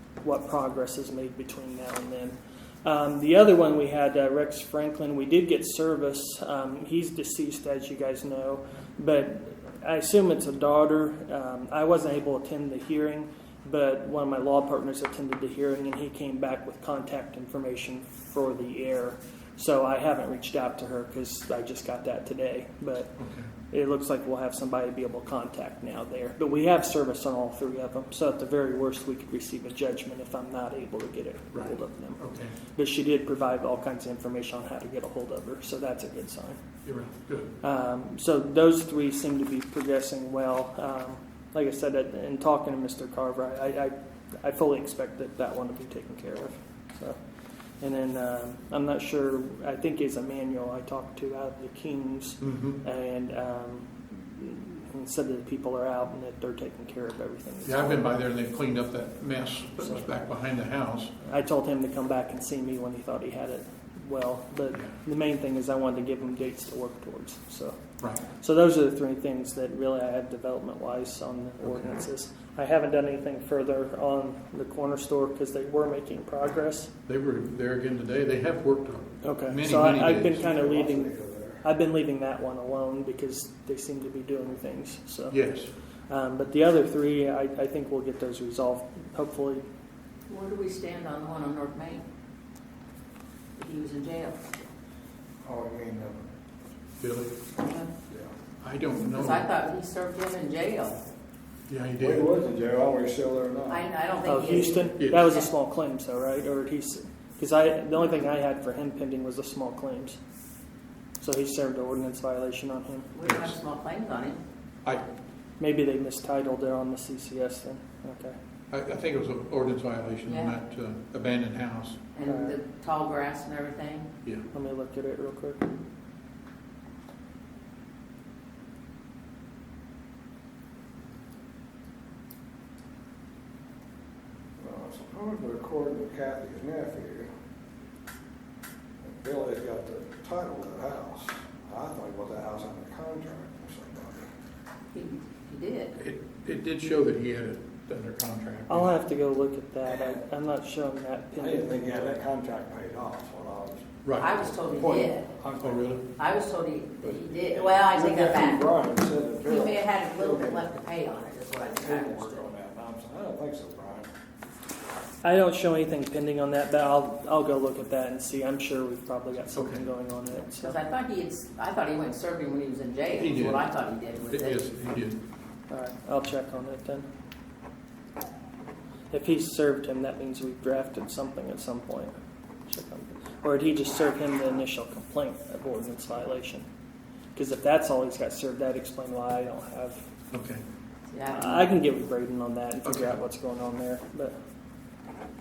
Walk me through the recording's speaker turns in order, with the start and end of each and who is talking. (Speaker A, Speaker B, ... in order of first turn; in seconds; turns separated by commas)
Speaker A: 0.2-23.2, Speaker B: 23.2-23.5, Speaker A: 23.7-32.2, Speaker B: 31.5-32.5, Speaker A: 32.7-36.6, Speaker B: 36.8-37.5, Speaker A: 37.6-47.2, Speaker A: 47.8-58.0, Speaker B: 52.4-52.8, Speaker B: 57.6-61.1, Speaker A: 61.2-76.9, Speaker B: 68.0-68.2, Speaker B: 77.1-80.4, Speaker A: 79.2-81.1, Speaker C: 80.3-81.6, Speaker A: 81.6-85.4, Speaker B: 85.3-85.7, Speaker A: 86.1-89.6, Speaker D: 90.3-92.0, Speaker D: 93.6-94.5, Speaker C: 95.4-96.2, Speaker B: 97.0-97.4, Speaker D: 97.6-97.9, Speaker B: 98.6-99.5, Speaker D: 99.1-101.0, Speaker B: 101.7-102.3, Speaker C: 102.0-103.9, Speaker D: 103.7-105.5, Speaker A: 104.2-110.2, Speaker B: 105.0-105.3, Speaker A: 111.2-113.1, Speaker D: 113.1-114.4, Speaker B: 113.2-113.6, Speaker A: 115.6-118.4, Speaker B: 118.7-122.0, Speaker D: 120.2-120.6, Speaker D: 122.1-124.1, Speaker A: 122.3-122.6, Speaker A: 124.5-125.6, Speaker C: 134.6-137.3, Speaker C: 139.0-144.3, Speaker D: 144.9-145.9, Speaker B: 146.0-149.0, Speaker A: 148.7-152.0, Speaker C: 149.8-150.2, Speaker C: 151.4-153.9, Speaker B: 154.0-154.4, Speaker D: 154.2-155.3, Speaker C: 154.5-156.0, Speaker B: 155.6-156.1, Speaker D: 156.2-158.6, Speaker C: 157.0-160.7, Speaker D: 159.4-162.5, Speaker C: 161.6-164.1, Speaker A: 165.2-170.8, Speaker B: 169.5-169.8, Speaker D: 170.6-174.6, Speaker B: 173.1-175.2, Speaker A: 175.7-177.1, Speaker A: 179.1-182.1, Speaker A: 182.7-186.7, Speaker A: 187.3-190.0, Speaker B: 190.3-190.6, Speaker D: 191.1-191.8, Speaker A: 191.3-194.3, Speaker B: 192.8-193.1